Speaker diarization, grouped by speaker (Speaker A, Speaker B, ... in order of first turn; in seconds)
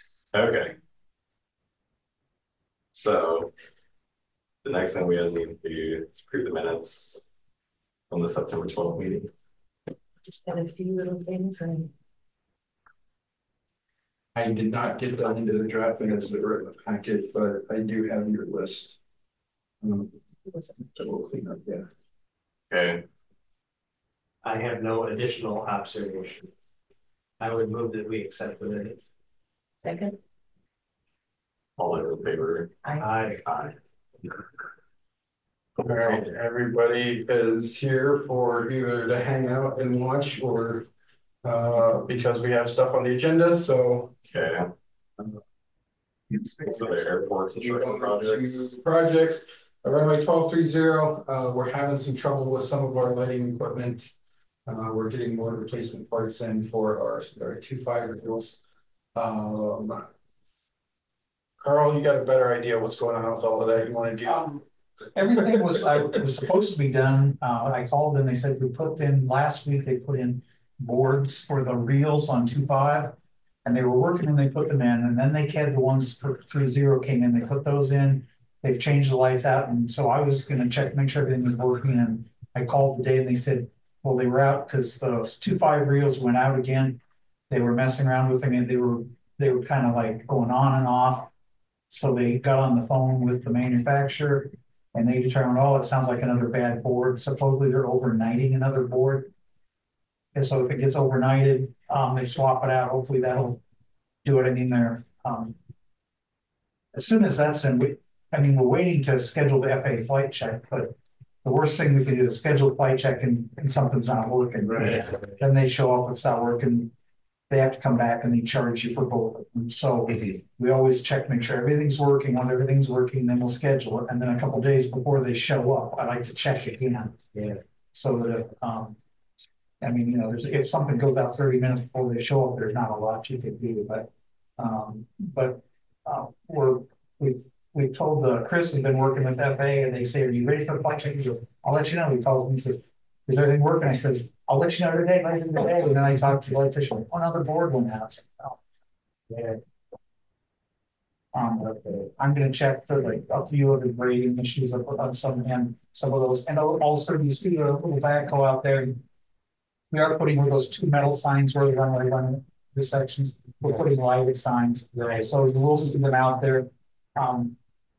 Speaker A: 0.3-0.8, 2.9-3.5, 4.6-7.2, 8.1-9.3, 22.7-23.0, 31.8-32.7, 33.5-33.7, 36.0-36.3, 44.3-44.7, 46.6-48.8
Speaker B: 10.2-11.9, 20.5-20.9, 29.8-30.2, 32.8-33.1
Speaker C: 14.3-19.0, 19.8-20.1, 20.9-21.9, 35.8-40.9, 41.4-44.2, 46.6-54.1, 54.7-58.6, 59.1-60.0, 61.6-64.6
Speaker D: 24.4-26.5, 27.4-29.0, 33.0-33.4, 114.7-115.4, 127.3-127.6
Speaker E: 64.2-64.5, 65.1-73.1, 73.6-87.0, 87.5-91.3, 91.9-99.3, 100.3-103.6, 104.2-105.5, 106.9-116.9, 117.5-127.2, 127.9-129.0, 129.8-148.6, 151.3-159.0, 159.9-167.6